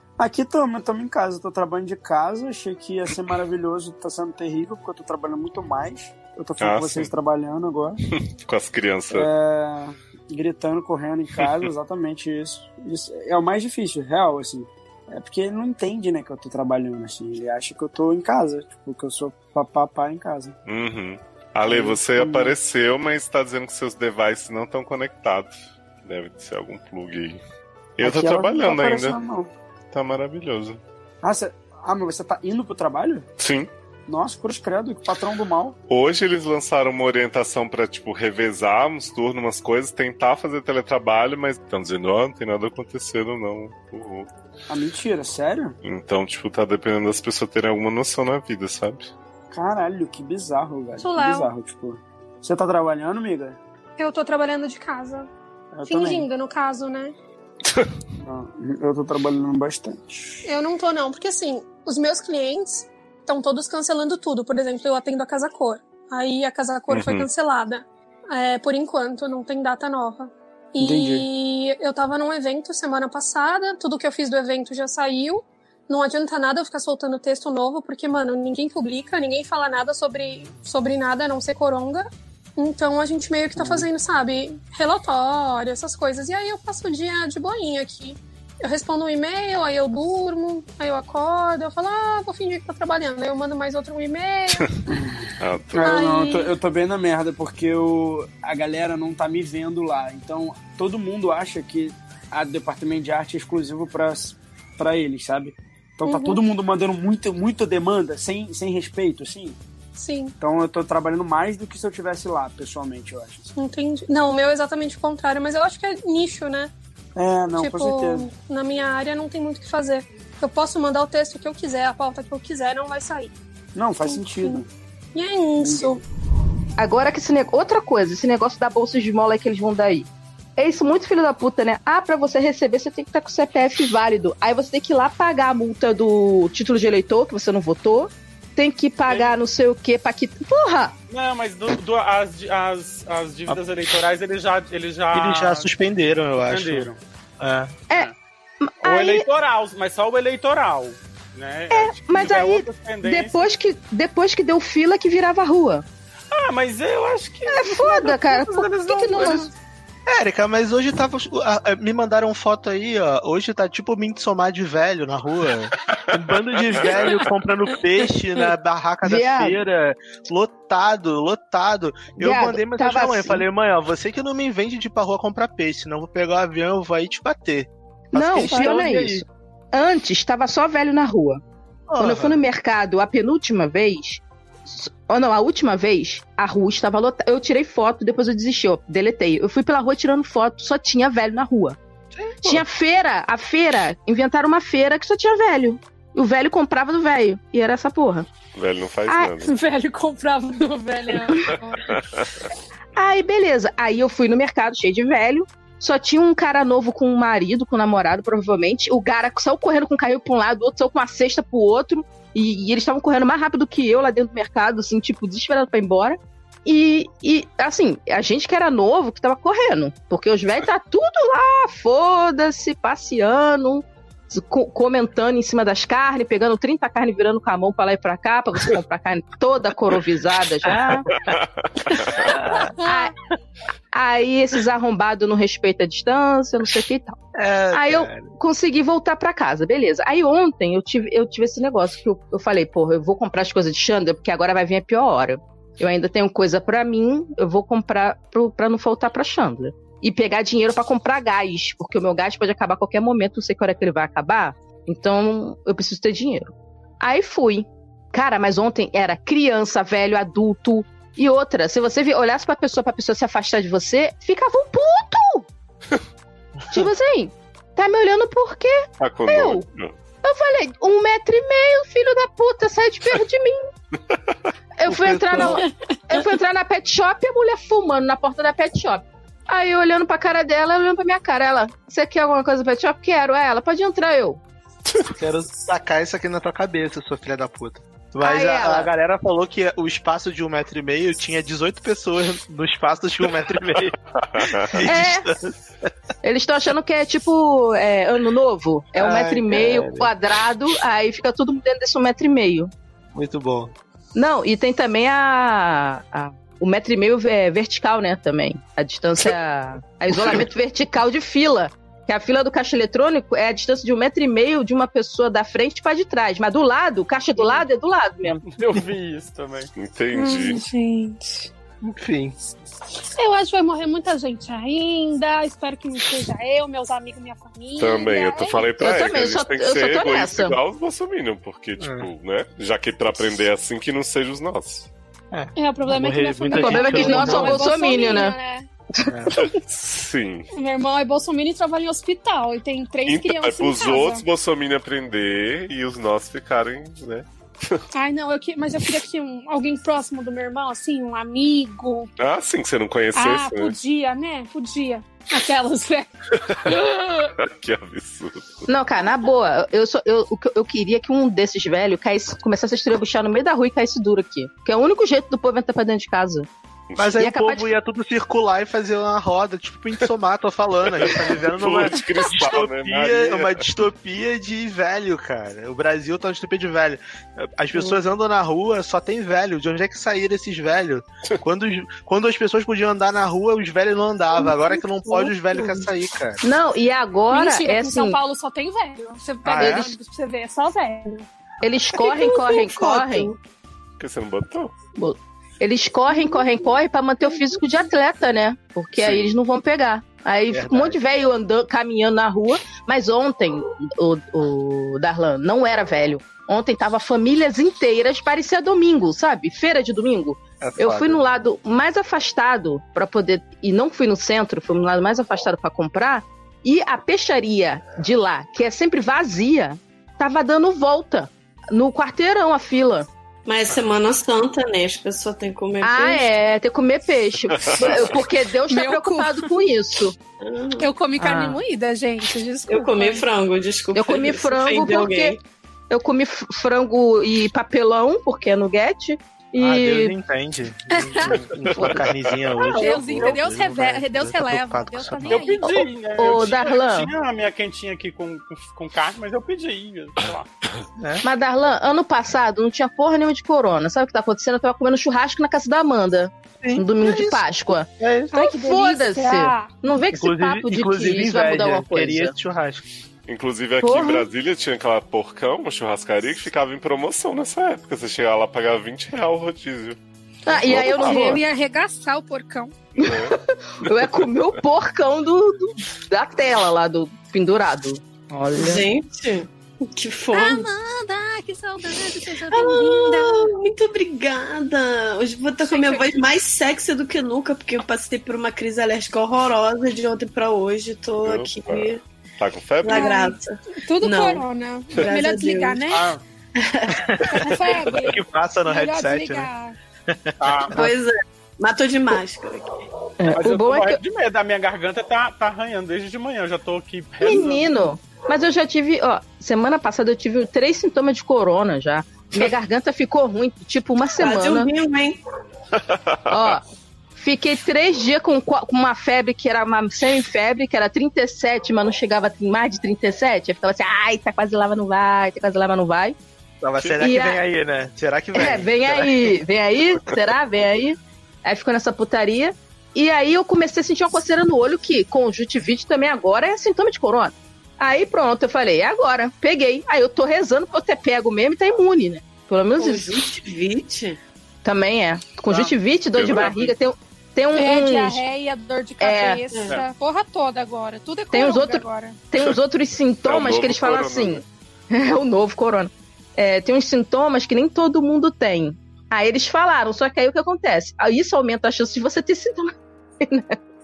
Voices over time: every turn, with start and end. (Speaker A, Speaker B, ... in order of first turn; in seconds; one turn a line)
Speaker A: 0.2-8.0
Speaker B: 6.6-7.1
Speaker B: 8.2-9.3
Speaker A: 9.1-20.6
Speaker B: 20.6-27.4
Speaker A: 21.6-22.6
Speaker B: 28.0-29.2
Speaker A: 28.0-29.5
Speaker B: 29.9-30.8
Speaker A: 31.2-33.3
Speaker B: 33.4-33.7
Speaker A: 34.1-35.8
Speaker B: 35.9-44.3
Speaker A: 44.7-45.8
Speaker B: 45.8-49.1
Speaker A: 49.5-53.6
Speaker C: 51.0-51.5
Speaker C: 54.0-55.3
Speaker A: 55.7-56.3
Speaker C: 55.9-57.1
Speaker A: 58.2-60.4
Speaker C: 60.4-94.7
Speaker B: 66.9-67.3
Speaker A: 70.8-71.3
Speaker A: 94.9-109.6
Speaker B: 95.4-96.0
Speaker C: 95.8-96.5
Speaker C: 106.0-106.4
Speaker C: 110.0-110.3
Speaker A: 110.4-113.5
Speaker C: 113.5-116.7
Speaker A: 117.2-118.3
Speaker C: 117.5-123.3
Speaker A: 123.7-124.7
Speaker C: 124.0-124.6
Speaker C: 125.1-126.0
Speaker A: 125.6-125.9
Speaker D: 126.8-140.9
Speaker E: 139.1-139.4
Speaker E: 141.1-145.7
Speaker F: 145.1-146.9
Speaker E: 146.5-147.0
Speaker F: 147.4-147.8
Speaker D: 148.6-149.3
Speaker E: 148.8-153.5
Speaker D: 151.7-155.8
Speaker E: 156.3-159.5
Speaker D: 157.5-159.5
Speaker F: 160.1-179.2
Speaker B: 166.8-167.1
Speaker D: 169.0-169.6
Speaker D: 172.2-173.4
Speaker D: 178.1-181.4
Speaker F: 181.9-182.4
Speaker D: 182.0-191.8
Speaker F: 192.2-192.5
Speaker D: 192.4-198.3
Speaker B: 198.5-199.5
Speaker C: 199.4-201.9
Speaker B: 201.9-202.3
Speaker D: 202.9-231.1
Speaker B: 231.3-231.7
Speaker F: 232.2-232.7
Speaker D: 232.8-233.1
Speaker D: 233.9-237.2
Speaker F: 237.3-238.3
Speaker D: 237.7-265.5
Speaker D: 266.7-269.6
Speaker B: 269.0-269.9
Speaker D: 270.2-273.6
Speaker D: 274.8-284.4
Speaker F: 274.9-275.6
Speaker F: 285.1-295.5
Speaker D: 288.2-288.9
Speaker B: 294.4-294.8
Speaker D: 294.8-295.3
Speaker D: 296.2-302.7
Speaker F: 298.9-300.1
Speaker F: 303.1-303.7
Speaker D: 304.1-318.4
Speaker E: 318.4-319.7
Speaker B: 319.8-320.6
Speaker C: 320.1-321.5
Speaker F: 321.8-322.4
Speaker C: 323.1-328.7
Speaker B: 327.8-334.9
Speaker D: 328.8-330.6
Speaker F: 331.8-332.1
Speaker F: 335.3-337.7
Speaker C: 335.6-338.7
Speaker D: 336.5-338.3
Speaker F: 339.1-339.4
Speaker B: 339.4-340.5
Speaker C: 340.5-344.2
Speaker B: 343.1-347.8
Speaker C: 347.9-352.1
Speaker B: 352.2-353.7
Speaker C: 353.1-357.3
Speaker B: 356.4-356.7
Speaker B: 357.4-358.7
Speaker D: 358.7-366.5
Speaker F: 367.0-386.4
Speaker D: 367.2-367.7
Speaker B: 371.0-373.7
Speaker G: 384.4-385.9
Speaker D: 386.4-388.2
Speaker C: 387.3-391.3
Speaker F: 389.4-389.9
Speaker D: 389.6-389.9
Speaker D: 391.6-393.3
Speaker G: 392.1-393.3
Speaker B: 394.0-394.7
Speaker D: 395.0-423.1
Speaker F: 399.0-399.3
Speaker F: 400.5-401.0
Speaker F: 410.6-411.2
Speaker G: 423.5-426.3
Speaker D: 425.8-430.1
Speaker B: 427.6-428.0
Speaker C: 428.7-429.5
Speaker G: 430.4-430.9
Speaker C: 430.8-433.2
Speaker D: 431.2-431.6
Speaker G: 432.7-435.4
Speaker D: 433.9-435.4
Speaker D: 435.9-440.2
Speaker F: 439.6-445.5
Speaker C: 440.9-441.4
Speaker D: 441.7-442.1
Speaker C: 442.7-445.7
Speaker E: 445.2-450.5
Speaker D: 446.1-447.1
Speaker F: 451.0-451.2
Speaker D: 451.2-462.3
Speaker F: 456.6-458.3
Speaker C: 458.3-459.8
Speaker F: 460.1-462.8
Speaker B: 463.3-470.0
Speaker D: 463.8-464.3
Speaker D: 470.4-471.4
Speaker B: 470.5-471.4
Speaker C: 470.8-472.7
Speaker B: 473.0-473.4
Speaker D: 473.0-478.8
Speaker G: 478.6-480.7
Speaker C: 480.3-483.6
Speaker G: 482.5-492.0
Speaker C: 485.6-486.1
Speaker B: 491.2-493.1
Speaker G: 492.8-494.4
Speaker C: 492.9-496.1
Speaker G: 495.0-495.8
Speaker E: 495.9-496.2
Speaker G: 496.6-497.0
Speaker F: 497.0-499.5
Speaker C: 497.3-499.8
Speaker F: 500.1-500.3
Speaker E: 500.4-500.7
Speaker G: 500.7-502.7
Speaker D: 503.2-504.0
Speaker E: 503.3-507.7
Speaker D: 507.2-514.7
Speaker G: 514.2-515.2
Speaker B: 515.8-516.5
Speaker D: 516.3-516.6
Speaker D: 517.1-526.1
Speaker F: 526.6-529.3
Speaker D: 527.0-527.4
Speaker D: 528.3-543.2
Speaker G: 542.8-544.2
Speaker D: 544.6-548.2
Speaker B: 546.1-546.7
Speaker C: 547.5-552.2
Speaker D: 549.0-549.4
Speaker G: 549.5-549.8
Speaker D: 551.3-563.5
Speaker B: 553.2-554.4